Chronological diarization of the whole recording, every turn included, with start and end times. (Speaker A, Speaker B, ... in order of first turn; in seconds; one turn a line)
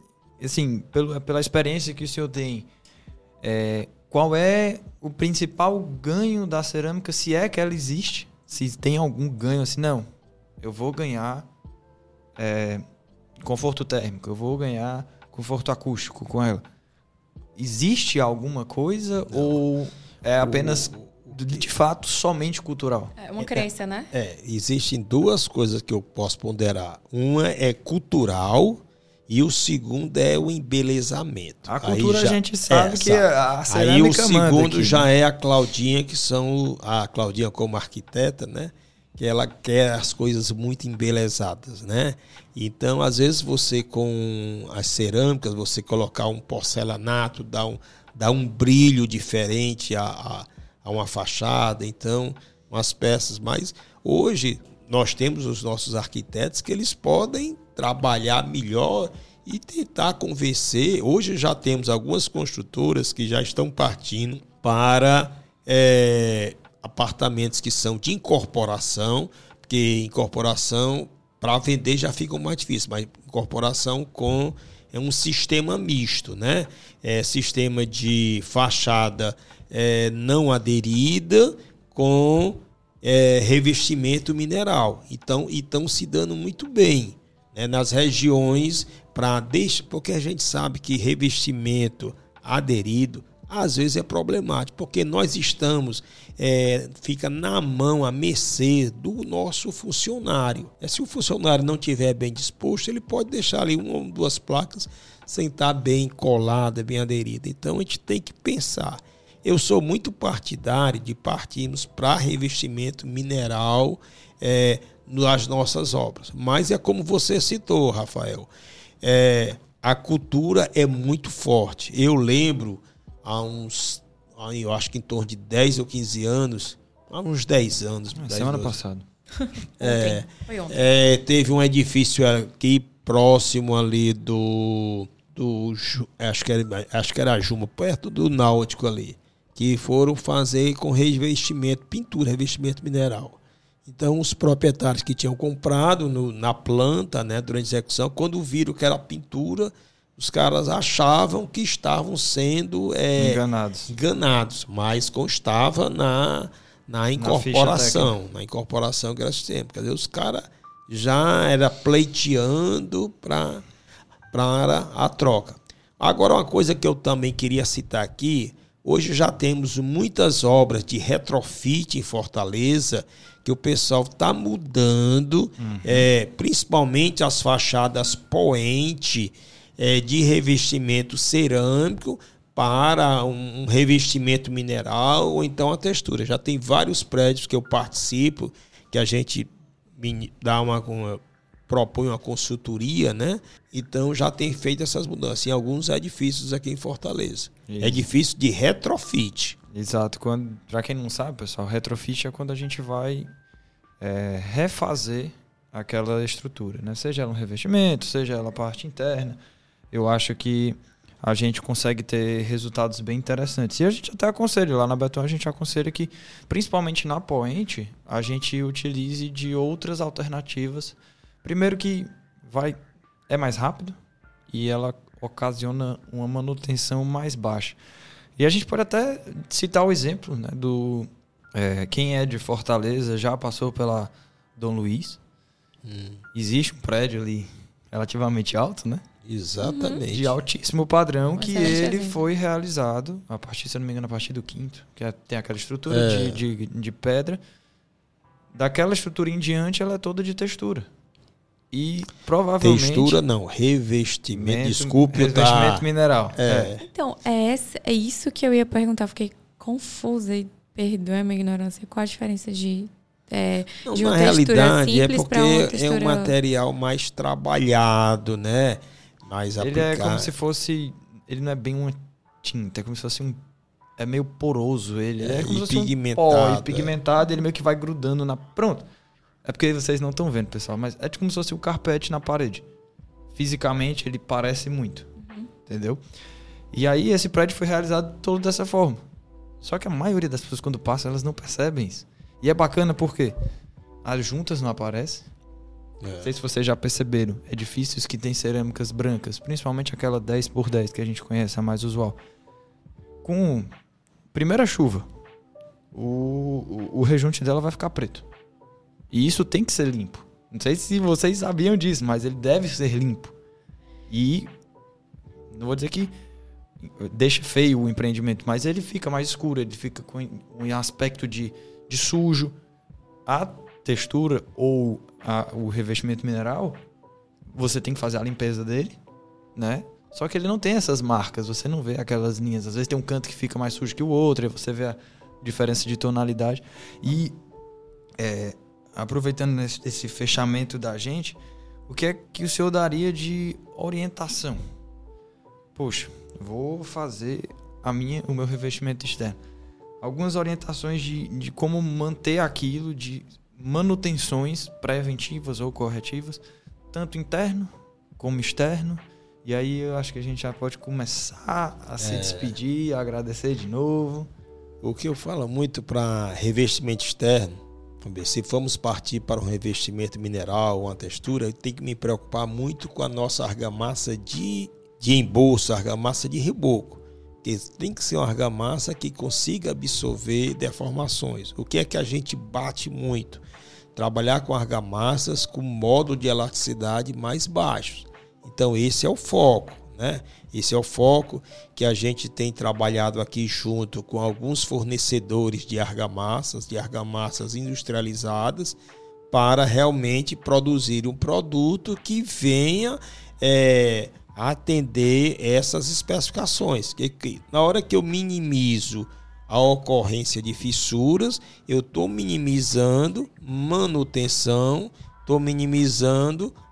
Speaker A: 0.4-2.7
Speaker A: 3.4-10.1
Speaker A: 10.6-11.5
Speaker A: 12.4-12.8
Speaker A: 13.4-16.6
Speaker A: 17.6-23.1
Speaker B: 19.3-19.6
Speaker B: 20.4-21.6
Speaker C: 23.2-24.1
Speaker B: 23.4-118.5
Speaker A: 31.7-35.1
Speaker B: 119.0-128.8
Speaker A: 128.1-129.1
Speaker C: 129.4-130.8
Speaker B: 129.8-163.7
Speaker A: 153.2-153.9
Speaker A: 157.2-158.2
Speaker B: 164.3-199.6
Speaker A: 175.6-176.1
Speaker A: 197.7-198.1
Speaker A: 199.7-203.3
Speaker A: 204.0-209.4
Speaker A: 209.9-224.0
Speaker A: 224.5-227.8
Speaker A: 228.4-235.2
Speaker B: 235.8-236.2
Speaker A: 236.3-239.1
Speaker B: 239.2-240.4
Speaker C: 239.6-240.1
Speaker A: 240.1-247.4
Speaker C: 241.4-242.2
Speaker B: 245.9-246.4
Speaker A: 248.5-250.9
Speaker A: 251.7-253.2
Speaker B: 252.6-256.9
Speaker A: 254.3-256.7
Speaker C: 256.8-266.3
Speaker B: 263.9-270.3
Speaker A: 269.6-273.4
Speaker A: 274.0-278.9
Speaker B: 275.2-276.9
Speaker A: 279.4-282.6
Speaker A: 283.3-285.1
Speaker C: 285.2-285.5
Speaker A: 285.7-286.0
Speaker A: 286.7-289.0
Speaker A: 289.6-293.4
Speaker A: 294.0-295.3
Speaker B: 296.0-296.3
Speaker A: 296.2-302.2
Speaker A: 303.2-303.7
Speaker A: 304.3-305.1
Speaker A: 305.9-308.3
Speaker A: 309.1-313.4
Speaker A: 314.1-314.5
Speaker A: 315.5-316.1
Speaker A: 316.8-322.5
Speaker A: 323.3-326.8
Speaker A: 327.5-329.0
Speaker A: 329.6-337.4
Speaker A: 338.2-344.6
Speaker A: 345.8-349.4
Speaker A: 350.0-356.4
Speaker A: 356.9-364.3
Speaker B: 362.0-362.6
Speaker B: 364.8-383.4
Speaker B: 383.9-398.8
Speaker B: 399.3-416.6